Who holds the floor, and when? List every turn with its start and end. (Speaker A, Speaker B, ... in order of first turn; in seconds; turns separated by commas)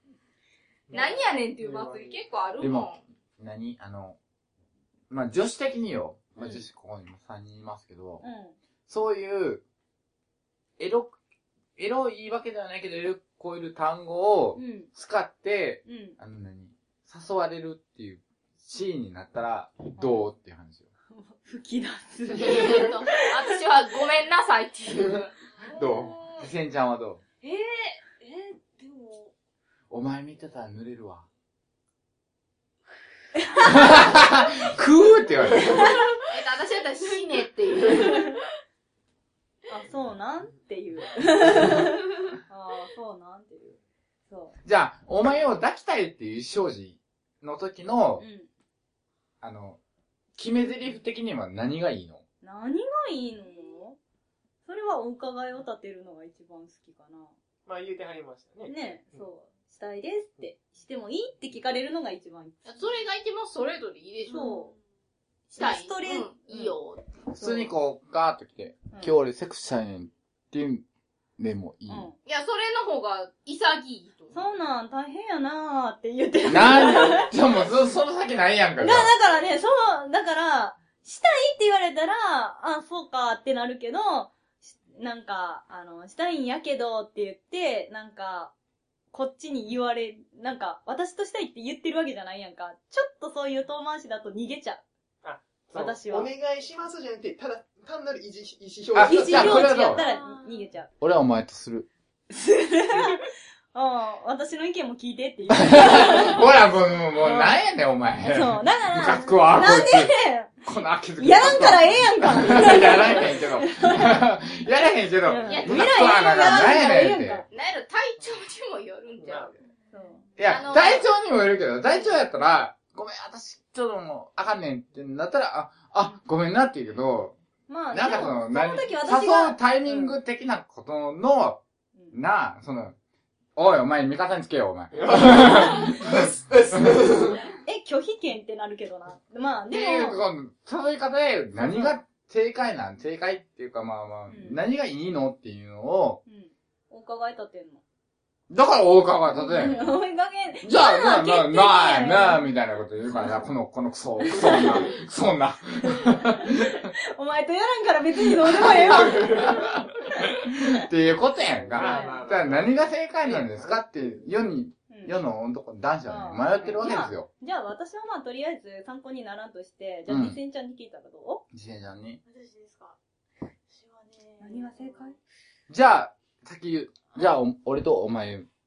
Speaker A: 0.9-2.2, Speaker B: 0.9-3.0, Speaker C: 0.9-1.2, Speaker D: 2.6-4.2, Speaker D: 5.1-8.2, Speaker C: 6.4-6.7, Speaker C: 8.2-8.6, Speaker D: 8.9-9.6, Speaker D: 10.8-11.2, Speaker D: 11.8-20.9, Speaker C: 14.6-14.9, Speaker C: 15.9-16.2, Speaker C: 20.0-20.3, Speaker C: 21.1-23.6, Speaker A: 22.4-22.8, Speaker B: 22.4-26.4, Speaker D: 25.8-27.2, Speaker C: 27.4-29.3, Speaker D: 29.9-31.3, Speaker C: 33.4-33.9, Speaker D: 33.6-36.0, Speaker B: 36.3-38.3, Speaker C: 39.7-43.8, Speaker C: 44.3-44.6, Speaker D: 44.6-48.3, Speaker C: 48.2-48.5, Speaker D: 49.4-49.8, Speaker D: 50.4-52.2, Speaker C: 52.4-54.0, Speaker C: 54.7-57.3, Speaker A: 57.7-59.3, Speaker C: 58.7-62.8, Speaker B: 62.6-64.6, Speaker C: 64.3-64.7, Speaker B: 65.5-67.0, Speaker C: 65.6-66.8, Speaker D: 67.3-70.8, Speaker C: 67.4-67.7, Speaker D: 71.4-72.1, Speaker C: 71.9-72.2, Speaker B: 72.3-74.4, Speaker C: 74.3-77.3, Speaker D: 76.5-79.1, Speaker C: 78.8-88.5, Speaker C: 89.1-94.8, Speaker A: 95.2-99.9, Speaker C: 95.7-96.3, Speaker D: 98.9-100.0, Speaker C: 99.0-100.9, Speaker E: 100.0-100.7, Speaker D: 101.0-101.9, Speaker C: 102.3-106.4, Speaker D: 105.5-117.5, Speaker C: 107.2-107.6, Speaker C: 108.2-110.5, Speaker C: 111.2-114.2, Speaker C: 115.2-117.5, Speaker B: 115.5-117.0, Speaker B: 117.5-119.5, Speaker A: 119.2-119.7, Speaker C: 119.9-120.2, Speaker D: 120.4-127.3, Speaker B: 120.4-121.1, Speaker C: 127.7-130.2, Speaker D: 127.9-131.6, Speaker D: 132.1-132.9, Speaker D: 133.6-136.2, Speaker A: 134.9-137.4, Speaker C: 137.7-140.2, Speaker D: 139.7-146.2, Speaker C: 141.6-141.9, Speaker C: 144.3-144.6, Speaker C: 146.3-147.8, Speaker D: 148.5-150.0, Speaker C: 149.3-152.5, Speaker D: 150.6-156.9, Speaker C: 154.2-154.9, Speaker C: 155.9-159.6, Speaker D: 158.4-167.3, Speaker A: 158.8-159.6, Speaker A: 161.5-164.3, Speaker C: 161.8-162.3, Speaker C: 164.9-165.2, Speaker C: 166.1-171.4, Speaker A: 166.6-166.9, Speaker D: 170.1-170.4, Speaker D: 171.5-172.2, Speaker E: 172.3-172.9, Speaker E: 173.7-175.1, Speaker C: 174.4-175.2, Speaker D: 175.7-178.5